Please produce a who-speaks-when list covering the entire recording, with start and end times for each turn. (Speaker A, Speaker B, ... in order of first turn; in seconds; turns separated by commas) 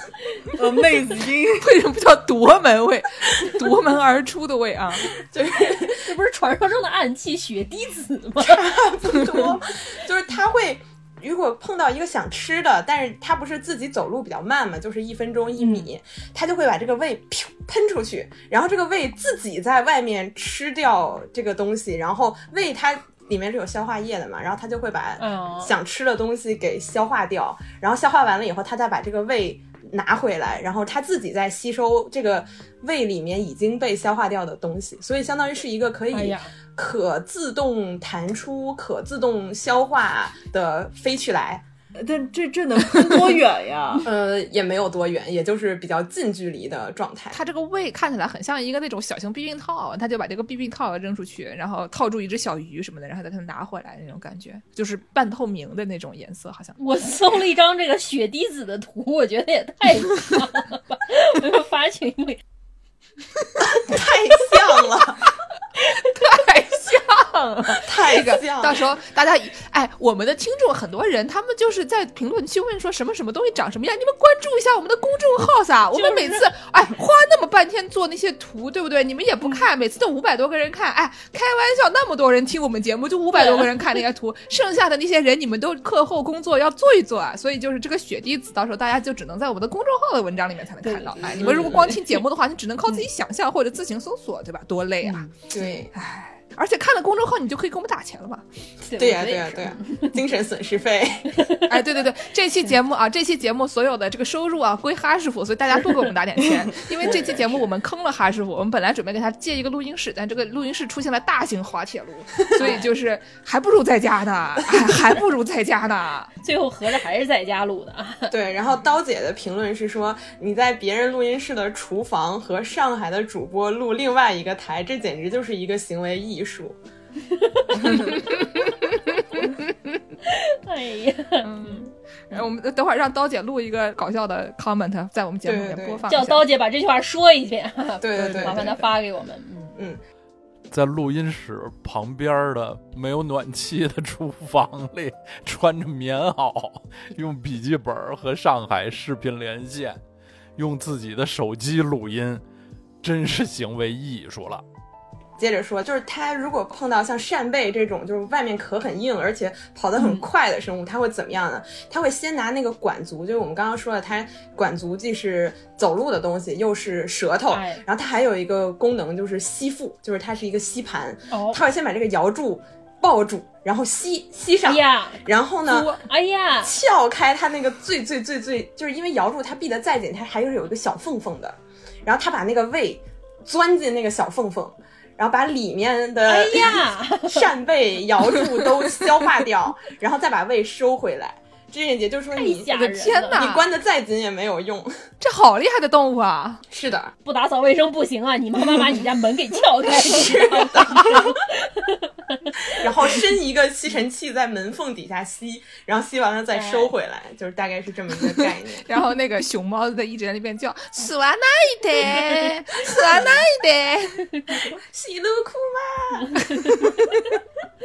Speaker A: 0.5-1.7, Speaker B: 1.6-5.1, Speaker C: 5.2-6.0, Speaker D: 5.6-8.6, Speaker C: 8.4-41.6, Speaker D: 15.6-15.9, Speaker D: 25.2-25.8, Speaker D: 36.1-36.5, Speaker A: 42.0-44.1, Speaker C: 44.0-47.4, Speaker B: 47.3-56.8, Speaker D: 56.8-62.4, Speaker C: 63.6-65.2, Speaker B: 66.1-95.3, Speaker C: 67.8-68.9, Speaker D: 75.9-76.4, Speaker D: 83.3-83.8, Speaker D: 90.8-91.9, Speaker C: 91.3-92.0, Speaker D: 95.0-95.7, Speaker C: 95.5-95.9, Speaker B: 95.9-98.4, Speaker D: 98.8-100.1, Speaker C: 99.0-101.4, Speaker B: 101.7-116.3, Speaker D: 107.0-107.6, Speaker D: 112.5-112.8, Speaker D: 116.4-118.3, Speaker C: 118.3-126.8, Speaker D: 127.3-128.7, Speaker C: 127.8-128.2, Speaker D: 130.2-131.8, Speaker B: 131.4-136.4, Speaker C: 135.4-136.0, Speaker D: 136.1-139.7, Speaker C: 138.0-138.7, Speaker B: 138.4-138.8, Speaker E: 140.7-150.0, Speaker E: 150.6-152.4, Speaker E: 153.0-154.6, Speaker C: 155.4-175.9, Speaker D: 160.0-160.2, Speaker D: 167.5-167.8, Speaker D: 171.3-171.6, Speaker D: 174.6-176.7, Speaker C: 176.6-192.7, Speaker D: 186.2-187.5, Speaker D: 192.3-193.4, Speaker B: 192.7-193.7, Speaker C: 193.3-195.1, Speaker B: 195.2-196.6, Speaker C: 196.7-197.1, Speaker D: 197.2-202.1, Speaker C: 199.8-201.3, Speaker C: 202.7-208.8, Speaker D: 206.5-206.9, Speaker B: 208.3-214.3, Speaker C: 214.7-216.5, Speaker D: 216.4-216.9, Speaker B: 216.9-217.3